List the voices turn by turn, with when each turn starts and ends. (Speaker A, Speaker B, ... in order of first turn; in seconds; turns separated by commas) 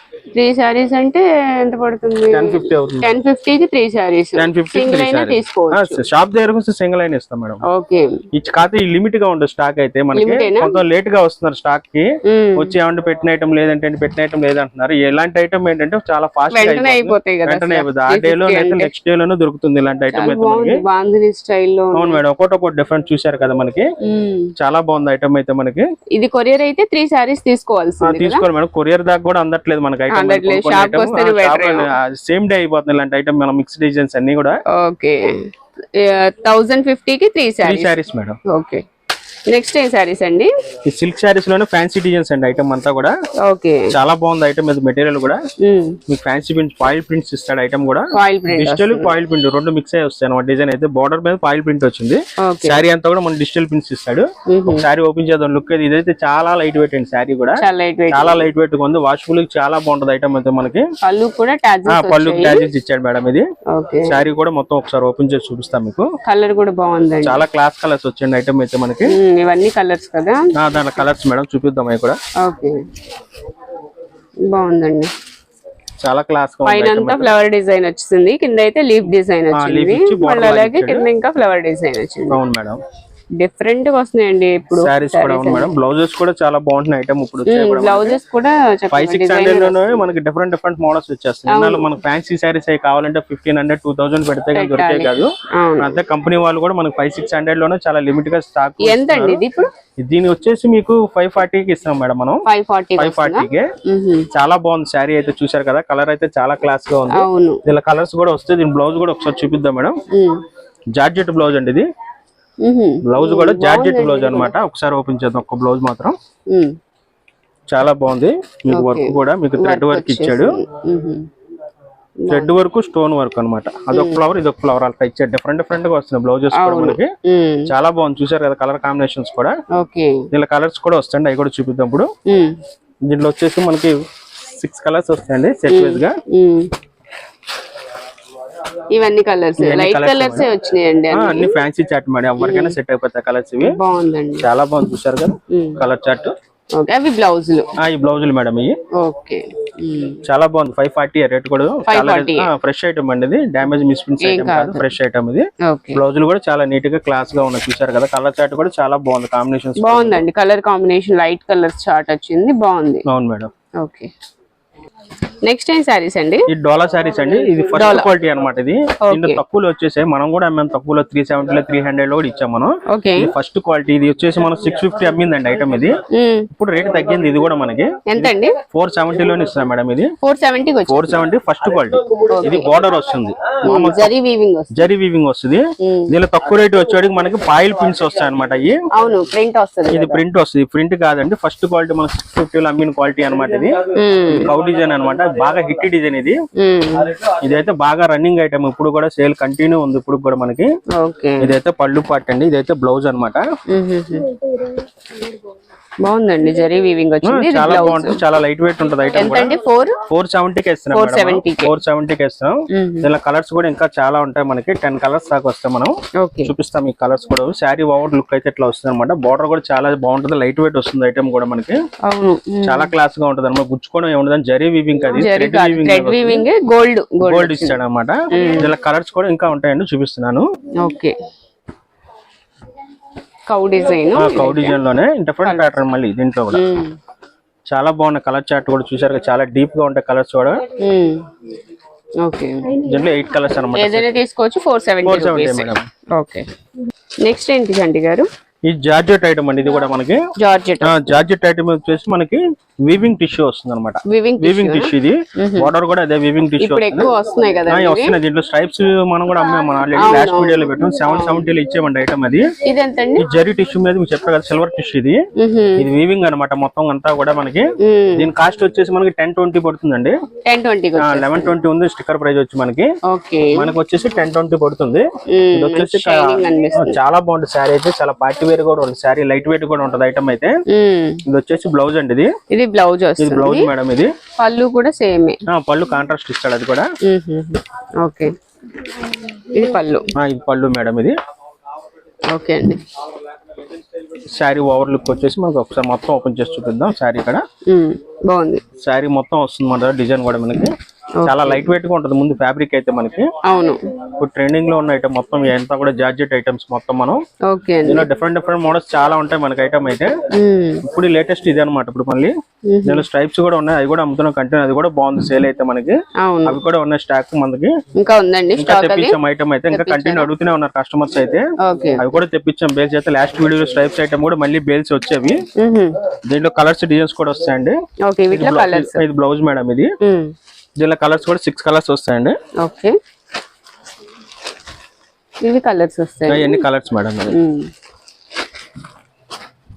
Speaker A: 0.3-6.0, Speaker B: 2.3-3.2, Speaker B: 4.4-7.6, Speaker A: 7.7-8.2, Speaker B: 8.3-20.8, Speaker A: 10.1-10.8, Speaker A: 12.2-12.7, Speaker A: 16.5-18.9, Speaker A: 20.1-22.2, Speaker B: 21.9-23.9, Speaker A: 24.0-24.5, Speaker B: 24.6-25.9, Speaker A: 26.1-28.4, Speaker B: 28.0-34.6, Speaker A: 30.1-31.9, Speaker A: 34.7-35.4, Speaker A: 35.9-38.8, Speaker B: 37.6-38.4, Speaker A: 39.5-40.5, Speaker B: 40.9-43.1, Speaker A: 43.4-43.9, Speaker B: 43.9-45.4, Speaker A: 45.6-46.0, Speaker B: 46.1-60.9, Speaker A: 48.1-49.1, Speaker A: 52.4-52.8, Speaker A: 54.5-54.8, Speaker A: 57.6-58.5, Speaker A: 61.0-62.7, Speaker B: 61.9-63.5, Speaker A: 63.7-64.2, Speaker B: 64.0-66.1, Speaker A: 66.2-67.4, Speaker B: 67.2-69.1, Speaker A: 69.1-71.0, Speaker B: 70.5-72.2, Speaker A: 72.4-72.8, Speaker A: 74.5-75.1, Speaker B: 76.0-77.3, Speaker A: 76.6-82.4, Speaker B: 79.5-81.0, Speaker B: 82.3-82.8, Speaker A: 83.4-85.7, Speaker B: 84.7-88.2, Speaker A: 87.5-90.0, Speaker B: 88.9-99.4, Speaker A: 91.5-91.9, Speaker A: 94.5-96.0, Speaker A: 98.8-99.7, Speaker B: 100.0-102.4, Speaker A: 102.4-104.3, Speaker B: 103.0-103.7, Speaker B: 104.3-110.0, Speaker A: 107.1-107.6, Speaker A: 110.1-110.4, Speaker B: 110.9-111.9, Speaker A: 112.6-114.5, Speaker B: 113.0-116.2, Speaker A: 116.5-116.7, Speaker B: 117.7-120.6, Speaker A: 118.7-121.3, Speaker A: 122.2-122.5, Speaker B: 122.3-127.1, Speaker A: 123.9-124.2, Speaker A: 126.5-127.7, Speaker B: 127.7-129.6, Speaker A: 129.7-130.2, Speaker B: 130.3-132.1, Speaker A: 132.3-132.6, Speaker B: 133.1-136.2, Speaker A: 135.7-136.7, Speaker A: 138.9-141.6, Speaker B: 139.6-140.5, Speaker B: 141.1-143.8, Speaker A: 142.4-142.8, Speaker A: 143.6-144.4, Speaker B: 144.4-146.3, Speaker A: 145.5-145.8, Speaker A: 146.7-147.7, Speaker B: 147.8-148.8, Speaker A: 148.9-150.2, Speaker B: 150.2-160.2, Speaker A: 151.9-152.5, Speaker A: 154.2-154.9, Speaker A: 155.6-156.0, Speaker A: 159.8-163.0, Speaker B: 163.1-163.5, Speaker A: 163.8-164.1, Speaker A: 165.4-166.5, Speaker B: 166.5-175.9, Speaker A: 167.6-168.1, Speaker A: 169.1-169.4, Speaker A: 172.9-173.3, Speaker A: 176.1-176.5, Speaker B: 176.5-180.1, Speaker A: 178.1-178.6, Speaker A: 180.2-181.2, Speaker B: 180.9-184.1, Speaker A: 182.3-182.7, Speaker A: 183.6-184.9, Speaker B: 184.7-188.8, Speaker A: 185.8-186.1, Speaker A: 188.9-190.2, Speaker B: 189.9-196.4, Speaker A: 193.9-194.5, Speaker A: 196.6-197.1, Speaker B: 197.2-200.7, Speaker A: 200.9-201.5, Speaker B: 201.4-203.4, Speaker A: 203.7-204.4, Speaker A: 206.0-208.2, Speaker B: 207.2-221.8, Speaker A: 209.1-210.0, Speaker A: 210.9-211.7, Speaker A: 212.7-213.1, Speaker A: 216.2-216.5, Speaker A: 222.0-222.9, Speaker B: 222.6-226.4, Speaker A: 225.1-227.8, Speaker B: 227.2-230.4, Speaker A: 228.3-228.7, Speaker A: 230.8-231.2, Speaker A: 233.5-234.8, Speaker B: 234.1-236.6, Speaker A: 235.4-235.8, Speaker A: 236.5-236.9, Speaker B: 237.7-240.6, Speaker A: 240.8-241.2, Speaker A: 242.2-242.8, Speaker B: 242.8-244.2, Speaker A: 243.7-246.5, Speaker B: 245.0-245.8, Speaker A: 247.2-248.3, Speaker B: 248.7-250.2, Speaker A: 250.4-251.2, Speaker B: 250.8-257.1, Speaker A: 254.1-255.7, Speaker A: 256.6-258.1, Speaker B: 257.7-262.5, Speaker A: 259.9-261.5, Speaker A: 262.6-263.2, Speaker B: 263.2-265.2, Speaker A: 265.4-265.9, Speaker B: 265.8-270.2, Speaker A: 267.8-268.3, Speaker A: 270.4-271.5, Speaker B: 271.0-272.9, Speaker A: 273.1-273.7, Speaker B: 273.5-280.6, Speaker A: 275.3-277.0, Speaker A: 280.7-281.2, Speaker B: 281.2-282.3, Speaker A: 282.5-283.7, Speaker B: 283.2-284.1, Speaker A: 284.4-285.4, Speaker B: 285.5-286.9, Speaker A: 287.0-288.3, Speaker A: 289.4-290.1, Speaker B: 290.1-291.1, Speaker A: 292.3-292.9, Speaker B: 294.4-297.4, Speaker A: 297.7-298.6, Speaker B: 298.8-303.3, Speaker A: 301.2-301.7, Speaker A: 303.4-303.8, Speaker B: 304.2-307.2, Speaker A: 307.5-308.1, Speaker B: 307.9-310.2, Speaker A: 310.3-310.8, Speaker B: 310.8-312.3, Speaker A: 312.7-313.0, Speaker B: 312.9-317.8, Speaker A: 316.2-316.6, Speaker A: 317.9-319.1, Speaker B: 318.6-321.5, Speaker A: 319.7-320.3, Speaker A: 321.6-322.1, Speaker B: 322.0-325.4, Speaker A: 325.5-326.0, Speaker B: 326.3-327.8, Speaker A: 328.0-329.0, Speaker B: 328.3-329.9, Speaker A: 330.0-330.3, Speaker B: 330.8-332.4, Speaker A: 332.6-332.9, Speaker A: 335.4-336.6, Speaker B: 336.3-337.4, Speaker A: 337.3-337.7